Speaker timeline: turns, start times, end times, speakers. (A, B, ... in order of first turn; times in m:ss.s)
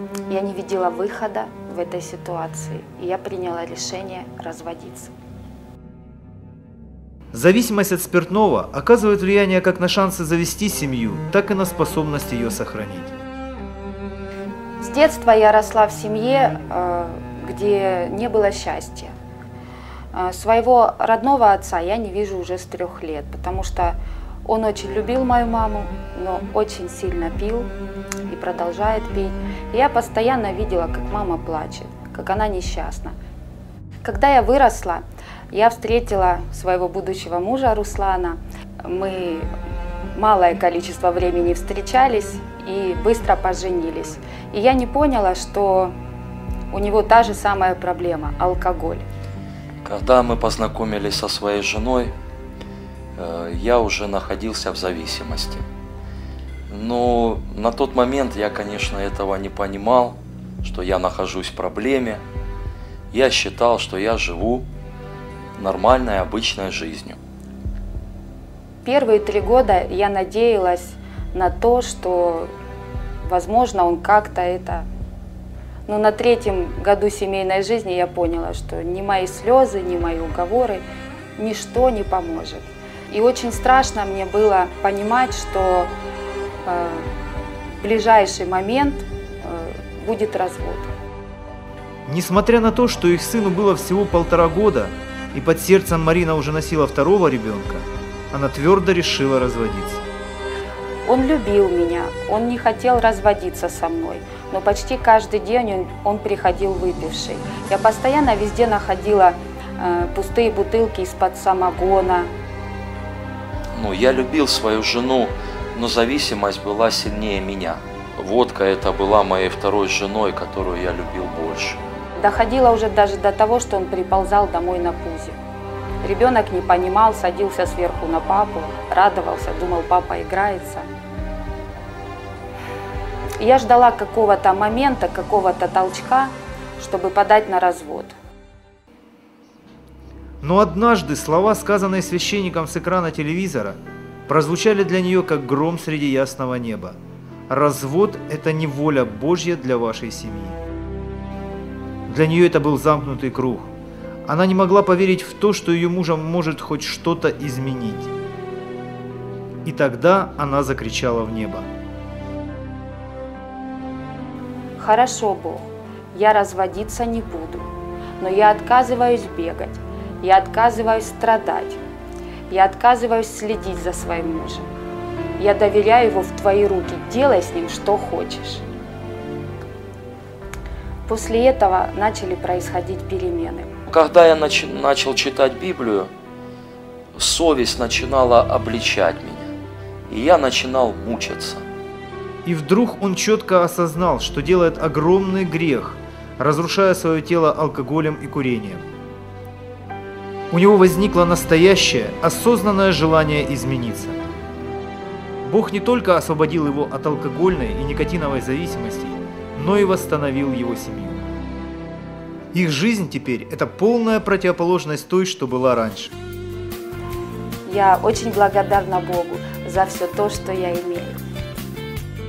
0:00.3-0:05.1 A
0:07.3-0:13.1 B
0:14.8-0:19.1 A
0:20.1-0:27.7 A
0:28.3-0:33.1 A
0:34.0-0:39.5 A
0:40.1-0:45.9 A
0:46.7-0:49.0 A
0:49.8-0:52.1 C
0:53.2-0:55.6 C
0:56.7-1:02.2 C
1:03.1-1:04.6 C
1:05.6-1:07.2 C
1:08.8-1:12.5 A
1:13.2-1:14.8 A
1:15.9-1:20.8 A
1:21.4-1:25.9 A
1:26.6-1:27.1 A
1:27.8-1:30.9 A
1:32.1-1:40.1 B
1:41.0-1:52.3 A
1:53.7-2:01.8 C
2:02.2-2:05.4 A
2:06.0-2:10.9 A
2:13.4-2:18.1 A
2:20.4-2:27.0 B
2:27.5-2:30.6 B
2:32.1-2:33.7 B
2:34.3-2:38.1 B
2:39.6-2:41.7 B
2:44.8-2:47.7 A
2:48.2-2:51.8 A
2:52.5-2:54.7 A
2:55.4-2:58.6 A
3:01.1-3:03.7 A
3:03.9-3:06.1 C
3:07.1-3:09.5 C
3:10.1-3:11.6 C
3:12.4-3:18.8 B
3:20.5-3:24.3 B
3:25.4-3:31.3 B
3:32.5-3:36.1 B
3:37.6-3:41.2 A